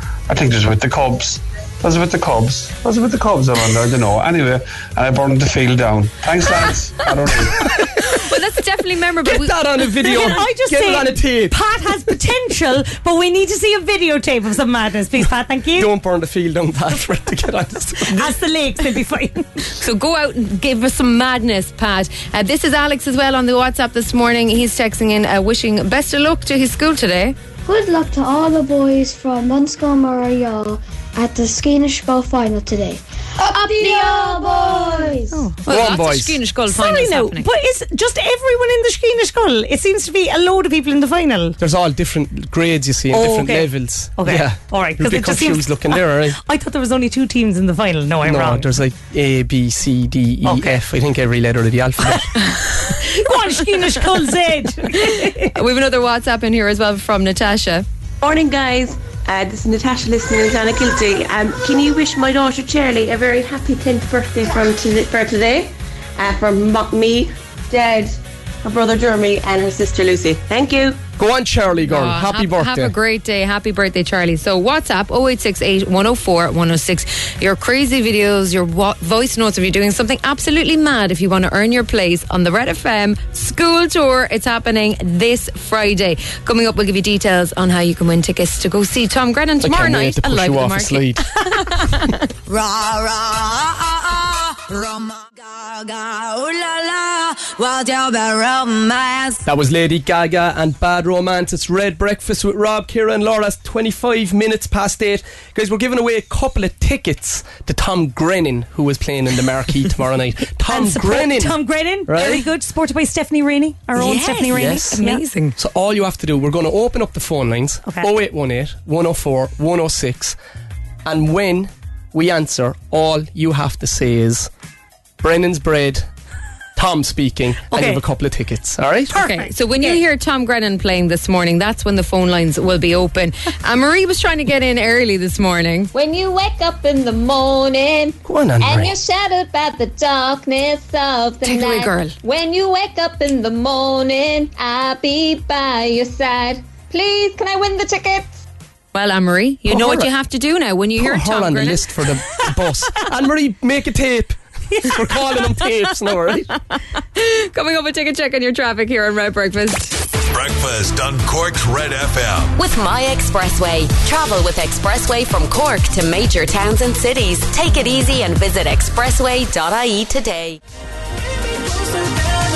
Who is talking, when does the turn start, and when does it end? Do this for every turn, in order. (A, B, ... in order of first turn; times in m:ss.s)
0:00.3-0:07.6 A
0:07.8-0:09.6 B
0:09.2-0:11.6 C
0:10.0-0:15.9 D
0:15.8-0:18.3 C
0:18.1-0:19.5 D
0:19.7-0:27.4 B
0:27.7-0:35.4 E
0:35.6-0:37.5 B
0:35.7-0:36.4 C
0:36.7-0:41.6 D
0:41.6-0:46.4 C
0:43.1-0:48.7 D
0:48.2-0:52.3 C
0:50.5-0:50.8 D
0:52.1-0:55.5 D
0:55.0-0:57.8 B
0:58.2-1:11.0 F
1:11.2-1:12.9 C
1:11.9-1:32.2 B
1:29.6-1:31.3 C
1:32.5-1:39.4 G
1:39.4-1:52.5 C
1:50.7-1:55.2 D
1:54.0-1:55.6 B
1:54.5-1:55.0 C
1:55.6-2:00.4 C
2:01.0-2:04.5 C
2:05.2-2:06.1 C
2:06.8-2:09.1 C
2:07.7-2:08.0 D
2:09.1-2:10.0 D
2:09.1-2:15.9 B
2:15.9-2:28.4 H
2:18.2-2:18.9 C
2:21.4-2:22.1 B
2:28.9-2:31.9 B
2:29.7-2:30.1 C
2:31.0-2:36.5 C
2:37.2-2:40.0 B
2:40.3-2:42.6 I
2:42.6-2:50.6 J